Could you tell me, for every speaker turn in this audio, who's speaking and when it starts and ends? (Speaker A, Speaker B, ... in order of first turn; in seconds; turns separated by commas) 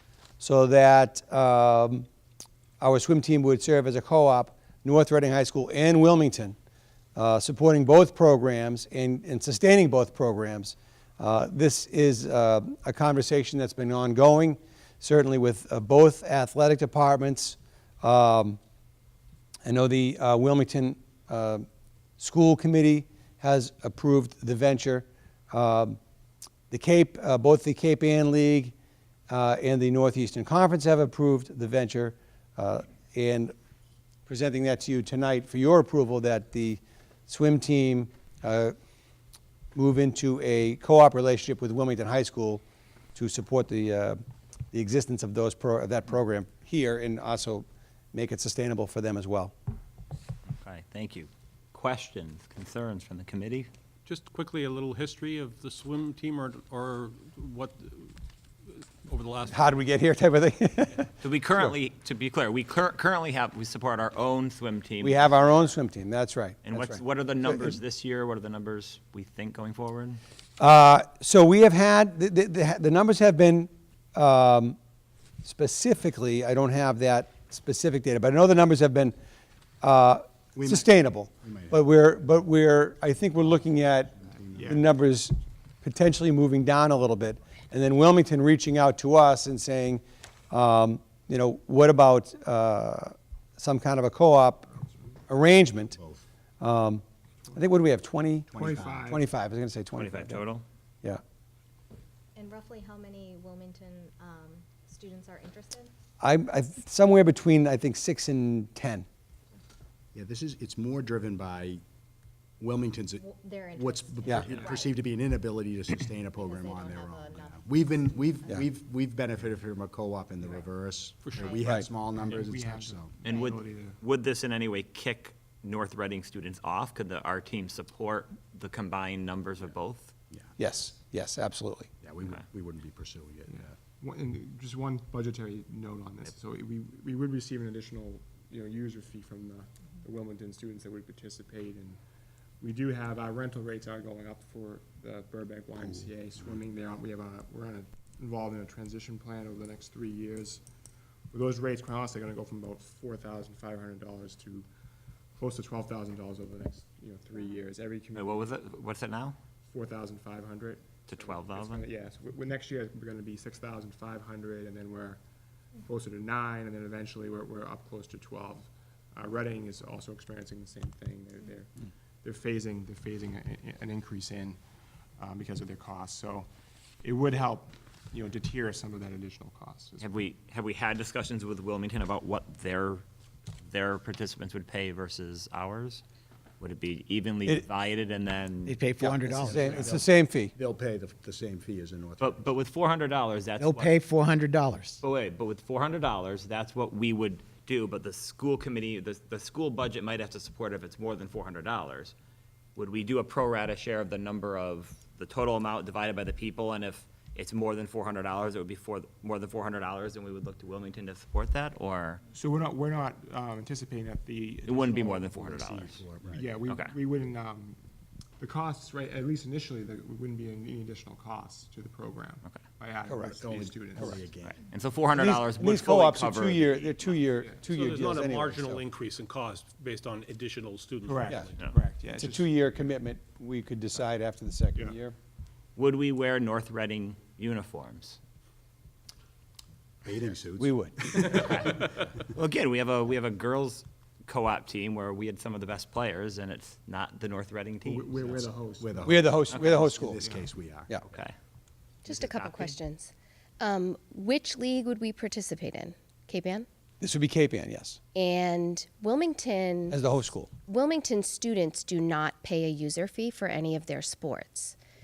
Speaker A: 0.4-2.1, Speaker A: 2.8-6.6, Speaker A: 7.2-18.6, Speaker A: 19.7-21.7, Speaker A: 22.2-26.0, Speaker A: 26.7-28.7, Speaker A: 29.3-33.5, Speaker A: 34.3-38.8, Speaker A: 39.8-42.6, Speaker A: 43.1-44.2, Speaker A: 44.7-49.5, Speaker B: 50.6-53.7, Speaker C: 54.1-58.1, Speaker C: 59.0-59.6, Speaker A: 59.5-61.1, Speaker B: 61.2-65.4, Speaker A: 65.0-67.8, Speaker B: 66.6-70.2, Speaker A: 70.6-74.8, Speaker A: 75.4-79.2, Speaker A: 79.8-94.7, Speaker D: 80.6-81.8, Speaker D: 84.2-84.8, Speaker E: 84.6-84.8, Speaker A: 95.3-96.0, Speaker D: 96.0-96.2, Speaker A: 96.6-97.0, Speaker A: 97.5-100.4, Speaker D: 98.5-99.1, Speaker E: 98.5-99.2, Speaker B: 99.9-100.6, Speaker F: 102.3-105.9, Speaker A: 106.2-109.1, Speaker D: 110.1-111.8, Speaker D: 112.6-123.1, Speaker F: 113.2-115.0, Speaker F: 116.4-118.3, Speaker E: 121.2-124.0, Speaker F: 121.3-121.7, Speaker B: 123.2-130.1, Speaker F: 123.3-123.6, Speaker A: 130.6-131.9, Speaker D: 132.0-133.7, Speaker E: 134.0-142.0, Speaker E: 142.6-150.6, Speaker E: 151.3-154.7, Speaker E: 155.4-158.5, Speaker B: 158.1-159.4, Speaker E: 159.7-165.2, Speaker B: 161.1-161.9, Speaker E: 165.9-171.7, Speaker E: 172.2-174.6, Speaker E: 175.2-176.5, Speaker E: 177.0-180.1, Speaker B: 180.0-183.0, Speaker B: 183.7-186.0, Speaker B: 186.6-189.1, Speaker G: 188.7-189.8, Speaker A: 189.0-190.5, Speaker D: 189.4-192.4, Speaker B: 192.2-194.0, Speaker G: 193.6-195.0, Speaker B: 195.0-202.1, Speaker B: 202.8-212.2, Speaker E: 212.3-215.3, Speaker B: 214.6-216.0, Speaker D: 215.3-216.5, Speaker E: 216.3-217.8, Speaker B: 216.7-216.9, Speaker E: 218.4-224.3, Speaker A: 223.1-223.3, Speaker D: 223.4-224.6, Speaker B: 224.5-227.2, Speaker A: 225.1-228.8, Speaker C: 227.7-231.6, Speaker E: 231.1-232.5, Speaker A: 232.2-235.2, Speaker B: 235.8-238.2, Speaker D: 240.0-241.7, Speaker A: 240.6-241.4, Speaker B: 241.3-248.5, Speaker E: 247.8-249.3, Speaker D: 248.8-250.9, Speaker A: 249.1-250.2, Speaker B: 249.5-249.8, Speaker E: 250.1-250.5, Speaker B: 251.1-251.3, Speaker H: 252.0-256.7, Speaker B: 252.1-252.8, Speaker A: 257.0-258.0, Speaker H: 258.1-260.0, Speaker A: 259.9-260.5, Speaker H: 260.7-264.8